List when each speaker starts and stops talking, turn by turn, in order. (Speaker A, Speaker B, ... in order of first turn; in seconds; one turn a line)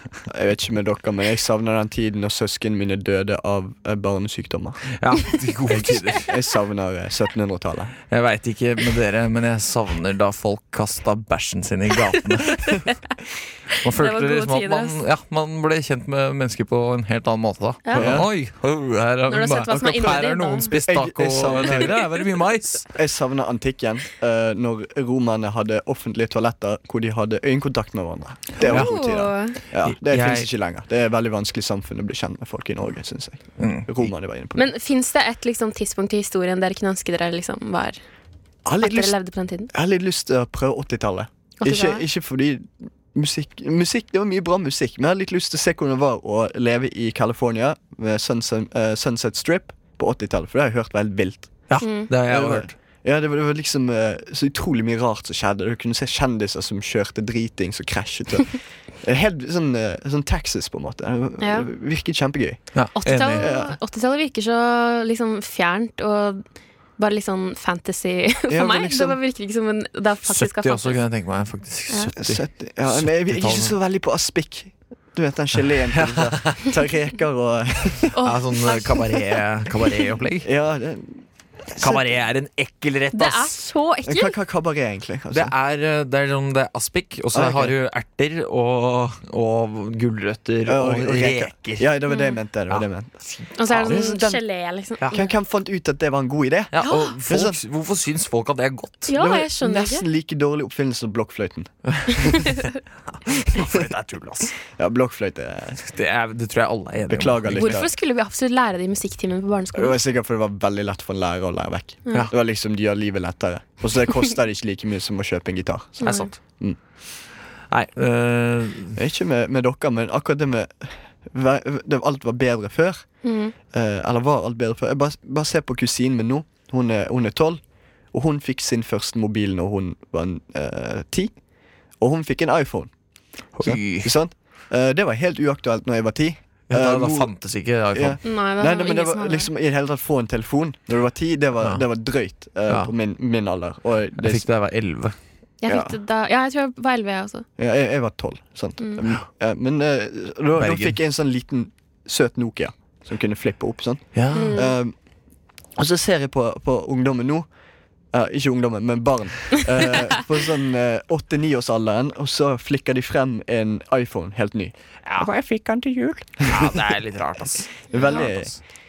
Speaker A: 0.3-4.9
Speaker B: 5.0-6.3
Speaker A: 5.8-7.9
Speaker B: 8.1-12.8
Speaker C: 12.6-12.9
Speaker C: 13.7-15.0
Speaker B: 13.8-22.9
Speaker C: 17.8-18.2
Speaker A: 17.9-18.3
Speaker C: 19.3-20.7
Speaker A: 20.7-22.0
Speaker A: 22.9-34.6
Speaker C: 28.6-29.6
Speaker B: 28.6-28.9
Speaker B: 29.8-30.5
Speaker B: 33.6-34.1
Speaker C: 34.5-38.0
Speaker A: 38.6-39.1
Speaker C: 38.8-39.7
Speaker A: 39.7-51.7
Speaker C: 41.6-42.0
Speaker B: 51.7-52.7
Speaker C: 51.8-52.1
Speaker A: 52.2-63.8
Speaker C: 61.4-61.7
Speaker B: 62.7-63.5
Speaker C: 63.0-66.4
Speaker C: 67.0-71.0
Speaker A: 68.5-69.2
Speaker B: 70.2-73.7
Speaker A: 72.2-78.2
Speaker B: 76.0-76.6
Speaker C: 78.1-79.2
Speaker B: 78.2-80.5
Speaker A: 80.4-82.1
Speaker B: 81.8-83.6
Speaker C: 83.1-84.3
Speaker A: 84.0-85.5
Speaker B: 85.3-91.9
Speaker A: 87.3-87.7
Speaker A: 90.7-94.4
Speaker C: 92.1-92.4
Speaker B: 92.7-94.1
Speaker C: 93.6-95.3
Speaker A: 95.1-97.6
Speaker B: 96.7-99.1
Speaker C: 96.8-97.1
Speaker C: 99.1-100.0
Speaker A: 99.1-102.3
Speaker B: 101.9-102.7
Speaker B: 103.2-104.6
Speaker A: 104.7-105.8
Speaker B: 105.8-107.8
Speaker A: 107.1-107.9
Speaker C: 107.5-110.0
Speaker A: 109.7-116.8
Speaker C: 116.0-116.3
Speaker B: 116.0-116.3
Speaker B: 117.7-119.0
Speaker A: 119.0-123.1
Speaker C: 123.2-123.5
Speaker A: 123.7-131.4
Speaker A: 132.0-132.9
Speaker B: 133.6-134.1
Speaker A: 133.6-137.3
Speaker B: 136.7-138.2
Speaker A: 137.9-144.4
Speaker C: 138.2-139.5
Speaker B: 144.2-145.1
Speaker C: 145.6-147.4
Speaker A: 145.7-145.9
Speaker A: 147.6-154.9
Speaker B: 150.6-150.9
Speaker B: 154.1-154.5
Speaker C: 154.3-154.7
Speaker A: 155.8-157.5
Speaker A: 158.1-166.8
Speaker B: 166.5-168.6
Speaker A: 167.9-168.5